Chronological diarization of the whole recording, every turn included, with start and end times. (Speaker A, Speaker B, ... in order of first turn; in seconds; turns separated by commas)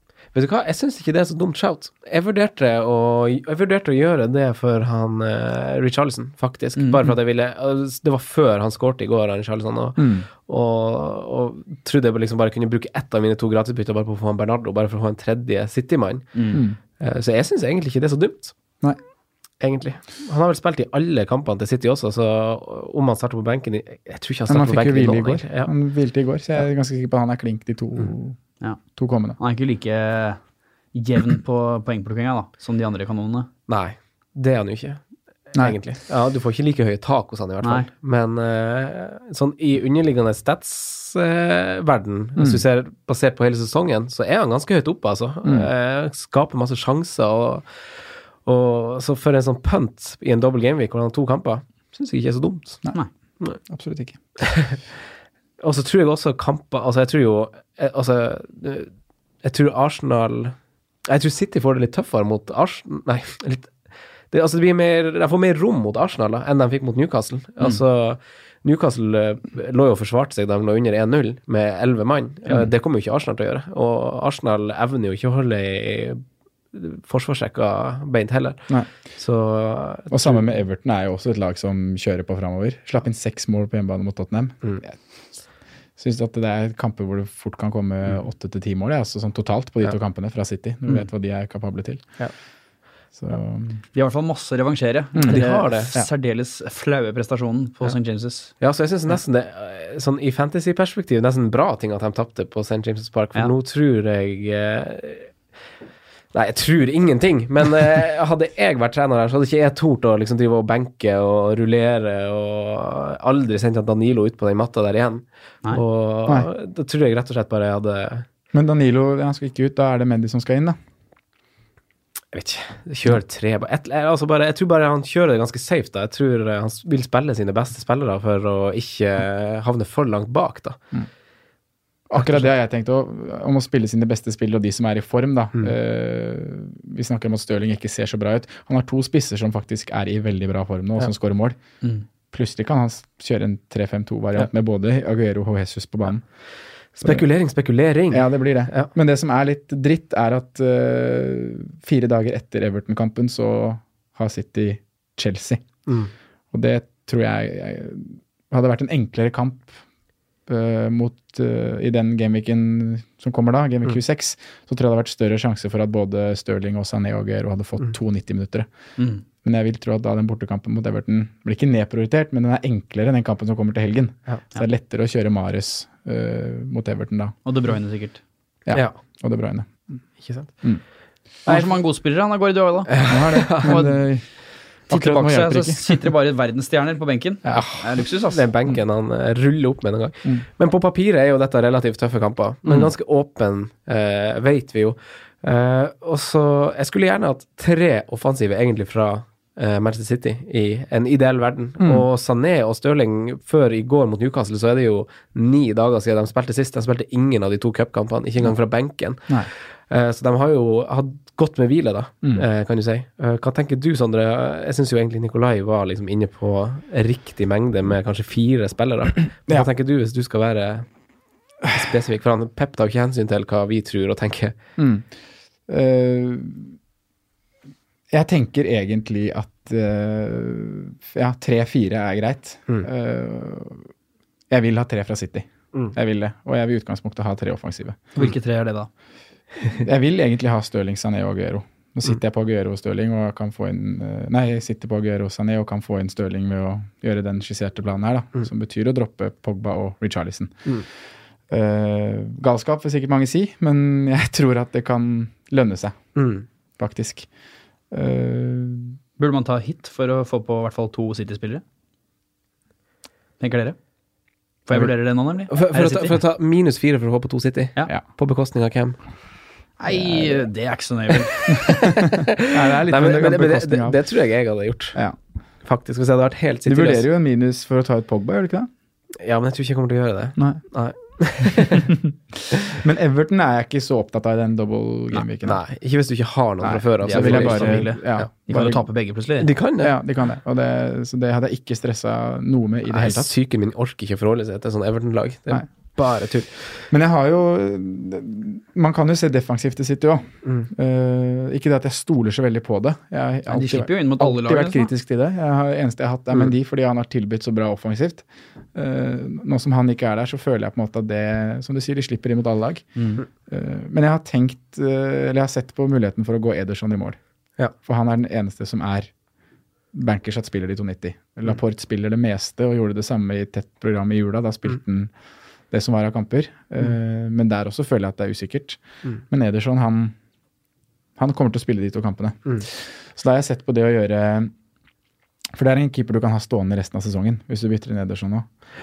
Speaker A: 0.3-16.4, Speaker B: 6.8-7.1, Speaker C: 10.0-10.3, Speaker B: 16.3-16.6, Speaker C: 16.5-16.8, Speaker A: 17.0-18.5, Speaker A: 19.6-25.7, Speaker C: 24.5-28.4, Speaker C: 28.9-29.4, Speaker B: 29.4-30.4, Speaker B: 30.9-33.5, Speaker A: 33.7-47.6, Speaker B: 37.6-37.9, Speaker C: 42.4-42.6, Speaker A: 48.4-52.8, Speaker C: 53.7-54.2, Speaker A: 54.4-54.8, Speaker A: 55.6-58.9, Speaker A: 59.4-60.5, Speaker A: 61.0-63.7, Speaker A: 64.3-80.4, Speaker C: 80.1-85.0, Speaker C: 86.0-92.0, Speaker C: 93.2-93.8, Speaker B: 93.9-98.5, Speaker C: 95.1-96.1, Speaker A: 95.2-95.9, Speaker A: 98.6-105.3, Speaker A: 106.3-118.2, Speaker C: 118.5-120.8, Speaker A: 122.3-130.8, Speaker C: 132.1-141.6, Speaker C: 142.3-146.2, Speaker A: 146.9-148.9, Speaker C: 148.1-155.6, Speaker C: 156.5-159.8, Speaker C: 160.5-168.7, Speaker B: 169.0-169.2, Speaker C: 169.4-177.3, Speaker B: 177.4-178.2, Speaker C: 178.7-179.9, Speaker A: 178.7-179.0, Speaker A: 180.2-180.5, Speaker B: 181.4-183.1, Speaker A: 182.9-183.8, Speaker C: 183.1-184.2, Speaker B: 183.6-184.0, Speaker C: 184.9-186.0, Speaker B: 184.9-188.4, Speaker A: 187.4-220.8, Speaker C: 201.8-202.0, Speaker A: 221.7-224.5, Speaker C: 224.8-225.1, Speaker C: 225.7-226.8, Speaker C: 228.1-233.9, Speaker C: 234.5-238.1, Speaker B: 238.2-238.9, Speaker C: 239.7-250.7, Speaker C: 251.5-256.1, Speaker A: 256.1-256.4, Speaker C: 256.8-257.3, Speaker C: 257.9-259.0, Speaker B: 259.2-261.6, Speaker B: 263.4-263.8, Speaker B: 264.6-266.2, Speaker A: 265.5-269.0, Speaker B: 269.8-271.7, Speaker A: 271.5-275.0, Speaker C: 272.5-274.0, Speaker A: 275.6-277.0, Speaker C: 276.6-278.7, Speaker A: 279.2-281.9, Speaker C: 280.4-280.6, Speaker C: 281.8-285.6, Speaker A: 285.4-288.3, Speaker C: 286.6-288.8, Speaker B: 287.0-289.5, Speaker A: 289.4-289.9, Speaker C: 289.8-293.3, Speaker A: 292.9-296.7, Speaker C: 296.9-312.9, Speaker B: 303.5-304.9, Speaker B: 313.0-313.2, Speaker C: 313.5-317.2, Speaker C: 317.8-319.1, Speaker C: 319.9-325.1, Speaker C: 325.7-330.1, Speaker C: 331.2-334.5, Speaker C: 335.5-338.5